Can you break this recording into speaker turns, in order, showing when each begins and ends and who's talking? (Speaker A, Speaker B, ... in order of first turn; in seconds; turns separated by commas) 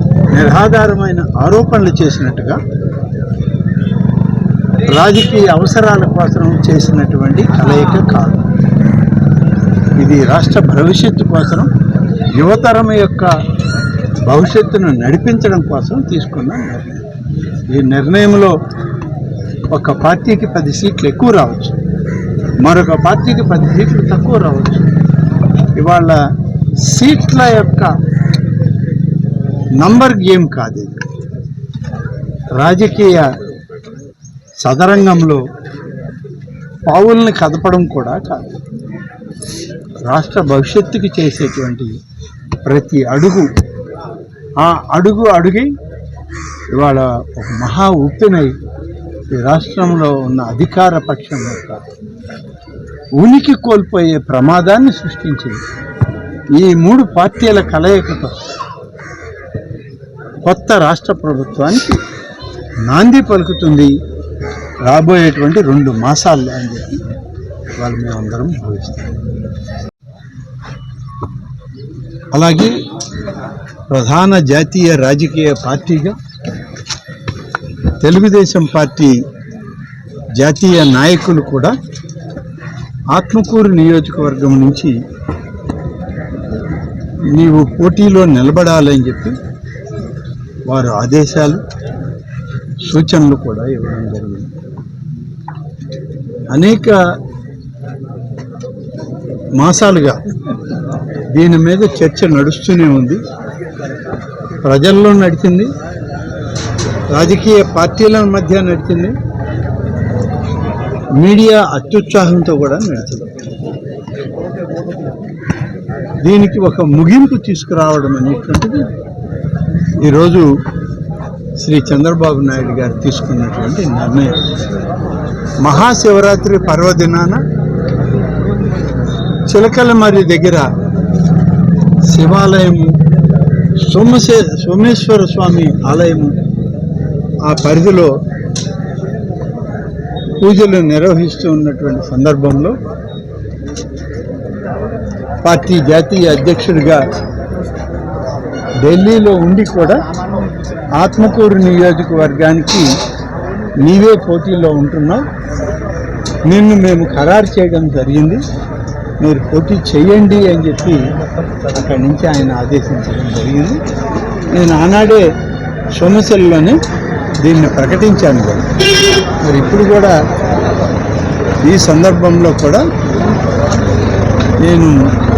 Speaker A: 0.3-2.6, Speaker A: 4.8-8.4, Speaker A: 10.0-11.7, Speaker A: 12.4-13.3, Speaker A: 14.3-17.0, Speaker A: 17.7-18.5, Speaker A: 19.7-21.8, Speaker A: 22.6-24.9, Speaker A: 25.8-26.2, Speaker A: 26.9-27.9, Speaker A: 29.8-30.9, Speaker A: 32.6-33.2, Speaker A: 34.6-35.4, Speaker A: 36.9-38.4, Speaker A: 40.1-41.9, Speaker A: 42.6-43.5, Speaker A: 44.6-45.7, Speaker A: 46.7-48.5, Speaker A: 49.3-51.8, Speaker A: 53.2-55.5, Speaker A: 56.6-58.4, Speaker A: 60.5-62.0, Speaker A: 62.9-63.9, Speaker A: 64.8-67.0, Speaker A: 67.8-69.1, Speaker A: 72.3-72.7, Speaker A: 73.9-76.1, Speaker A: 78.0-79.1, Speaker A: 80.4-81.7, Speaker A: 83.1-84.9, Speaker A: 87.3-89.3, Speaker A: 90.7-91.6, Speaker A: 92.9-94.5, Speaker A: 96.5-96.9, Speaker A: 99.6-100.2, Speaker A: 101.3-103.2, Speaker A: 104.6-105.7, Speaker A: 107.1-109.1, Speaker A: 111.2-113.2, Speaker A: 116.2-118.8, Speaker A: 120.0-120.5, Speaker A: 121.6-124.3, Speaker A: 125.6-127.4, Speaker A: 129.5-130.6, Speaker A: 132.1-132.9, Speaker A: 133.9-136.3, Speaker A: 137.5-138.1, Speaker A: 140.4-142.7, Speaker A: 145.4-147.0, Speaker A: 148.8-150.0, Speaker A: 151.0-152.8, Speaker A: 153.8-155.2, Speaker A: 156.5-158.4, Speaker A: 159.2-161.0, Speaker A: 161.7-163.8, Speaker A: 164.5-165.2, Speaker A: 166.0-166.8, Speaker A: 167.4-168.7, Speaker A: 169.4-170.1, Speaker A: 171.7-172.8, Speaker A: 174.6-174.9